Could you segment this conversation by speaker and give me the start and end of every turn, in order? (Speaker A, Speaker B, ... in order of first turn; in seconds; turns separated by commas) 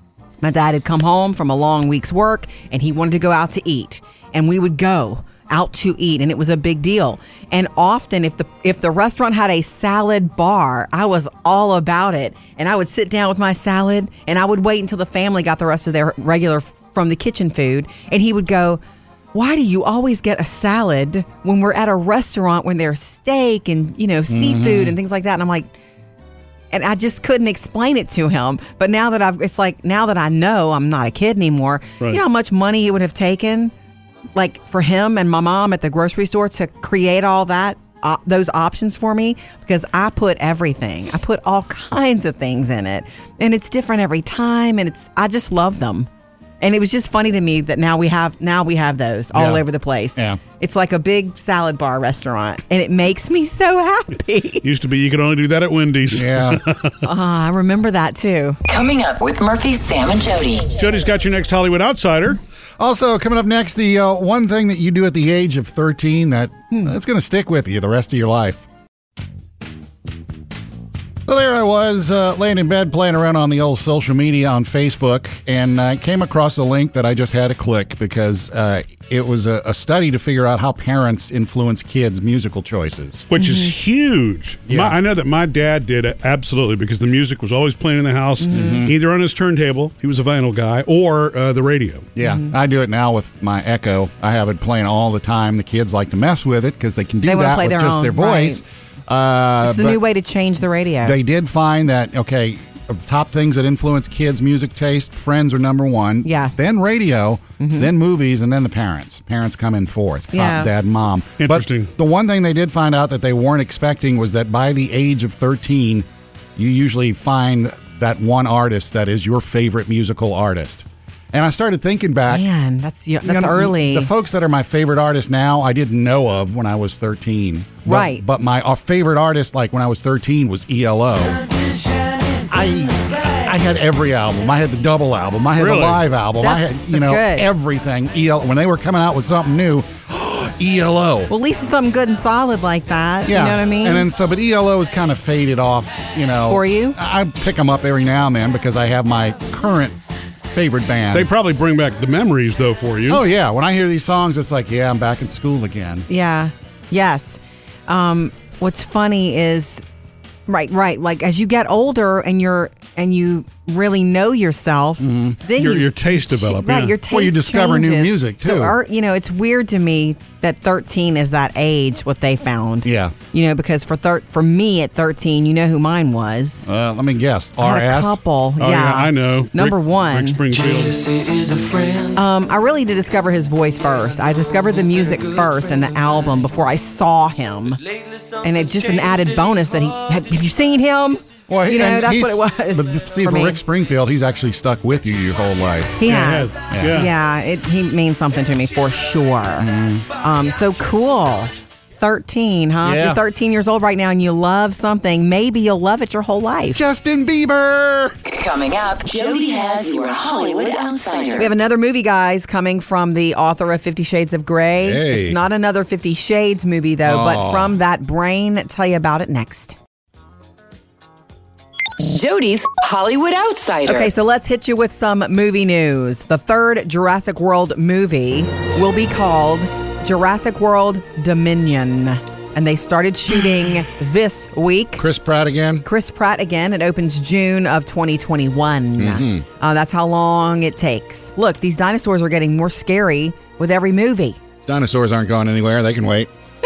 Speaker A: 0.4-18.8, Speaker A: 19.3-25.7, Speaker B: 24.3-25.0, Speaker A: 26.7-33.7, Speaker A: 34.4-46.1, Speaker A: 46.6-54.6, Speaker B: 49.3-49.6, Speaker C: 54.6-57.0, Speaker B: 56.1-56.6, Speaker A: 57.0-58.6, Speaker D: 58.7-60.7, Speaker C: 60.8-62.4, Speaker B: 62.8-68.7, Speaker B: 71.2-83.3, Speaker C: 83.3-92.1, Speaker A: 83.4-83.7, Speaker B: 84.7-85.0, Speaker A: 88.4-88.8, Speaker B: 88.5-89.0, Speaker B: 92.2-100.0, Speaker A: 92.2-92.5, Speaker A: 97.2-98.6, Speaker A: 99.6-101.2, Speaker B: 101.0-122.5, Speaker A: 106.2-106.5, Speaker A: 107.6-107.9, Speaker A: 110.3-110.7, Speaker C: 111.4-111.9, Speaker A: 122.3-124.1, Speaker B: 123.2-131.4, Speaker A: 127.8-128.2, Speaker B: 132.5-141.3, Speaker C: 135.6-136.0, Speaker A: 136.4-137.5, Speaker A: 141.3-144.1, Speaker B: 143.3-150.0, Speaker A: 146.5-147.0, Speaker B: 150.5-151.3, Speaker C: 151.1-153.2, Speaker B: 153.1-156.1, Speaker A: 156.1-159.8, Speaker A: 160.5-176.7, Speaker B: 165.0-165.4, Speaker C: 165.5-167.0, Speaker B: 167.1-168.8, Speaker B: 172.8-173.1, Speaker B: 176.7-178.2, Speaker A: 177.6-180.4, Speaker C: 178.6-181.2, Speaker A: 182.1-187.8, Speaker A: 188.4-193.6, Speaker B: 191.5-196.0, Speaker A: 196.0-206.8, Speaker C: 196.0-197.1, Speaker B: 196.7-197.1, Speaker B: 199.6-200.1, Speaker B: 202.8-203.2, Speaker B: 206.7-208.2, Speaker D: 208.2-211.5, Speaker A: 211.4-219.8, Speaker B: 214.8-215.4, Speaker B: 217.1-217.8, Speaker D: 222.0-224.1, Speaker A: 223.9-235.0, Speaker B: 235.0-235.8, Speaker A: 235.8-244.4, Speaker B: 239.0-239.4, Speaker B: 244.6-246.3